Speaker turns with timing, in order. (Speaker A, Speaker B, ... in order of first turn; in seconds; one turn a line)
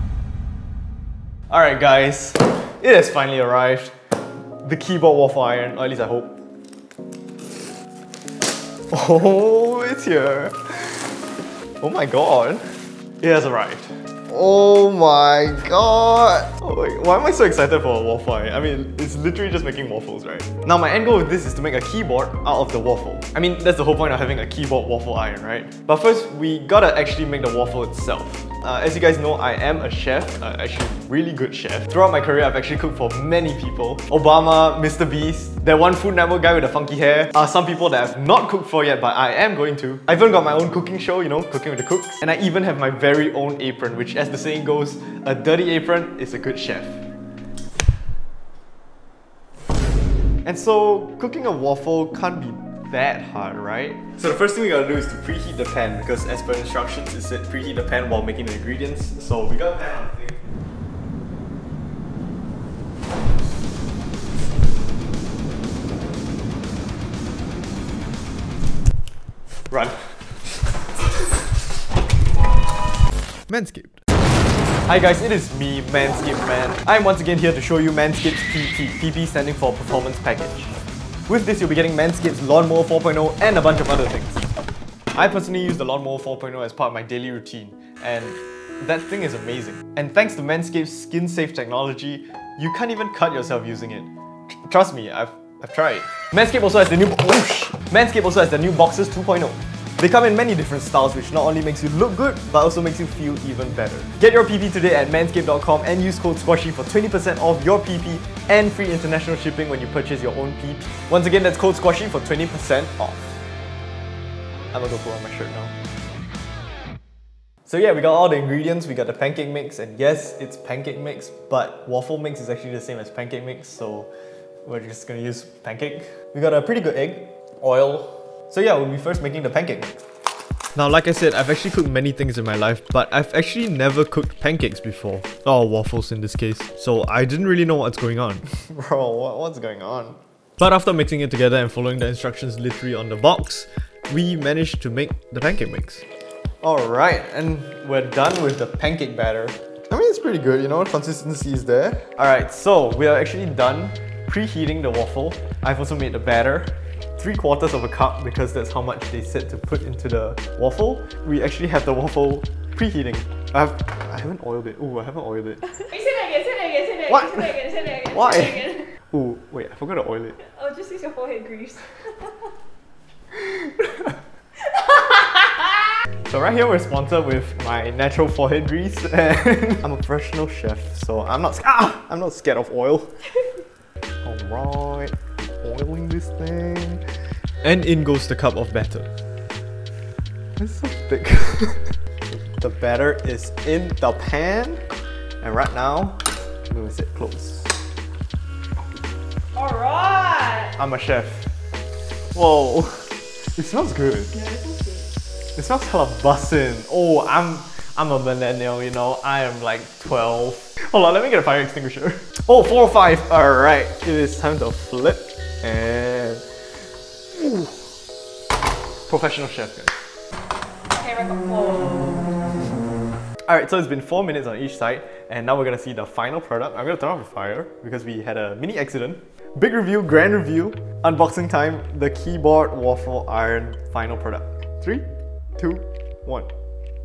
Speaker A: 1.5-3.9
Speaker A: 4.6-6.4
Speaker A: 8.9-11.0
Speaker A: 11.8-12.7
Speaker A: 13.2-47.0
Speaker A: 50.4-60.4
Speaker A: 69.7-70.4
Speaker A: 73.5-74.0
Speaker A: 74.9-80.7
Speaker A: 81.3-84.5
Speaker A: 85.1-94.1
Speaker A: 94.6-113.4
Speaker A: 114.7-115.7
Speaker A: 117.7-124.1
Speaker A: 124.6-130.0
Speaker A: 130.7-146.0
Speaker A: 146.6-165.8
Speaker B: 165.8-168.9
Speaker A: 167.1-170.4
Speaker B: 170.4-172.5
Speaker B: 174.6-175.9
Speaker A: 176.2-183.2
Speaker A: 184.2-187.0
Speaker A: 187.6-189.1
Speaker A: 190.6-194.8
Speaker A: 195.4-197.7
Speaker B: 199.5-200.7
Speaker A: 200.8-201.5
Speaker A: 202.3-204.3
Speaker B: 204.3-205.1
Speaker A: 205.6-216.4
Speaker A: 217.4-217.6
Speaker A: 219.1-219.9
Speaker B: 220.9-222.4
Speaker A: 223.4-235.1
Speaker A: 235.6-236.5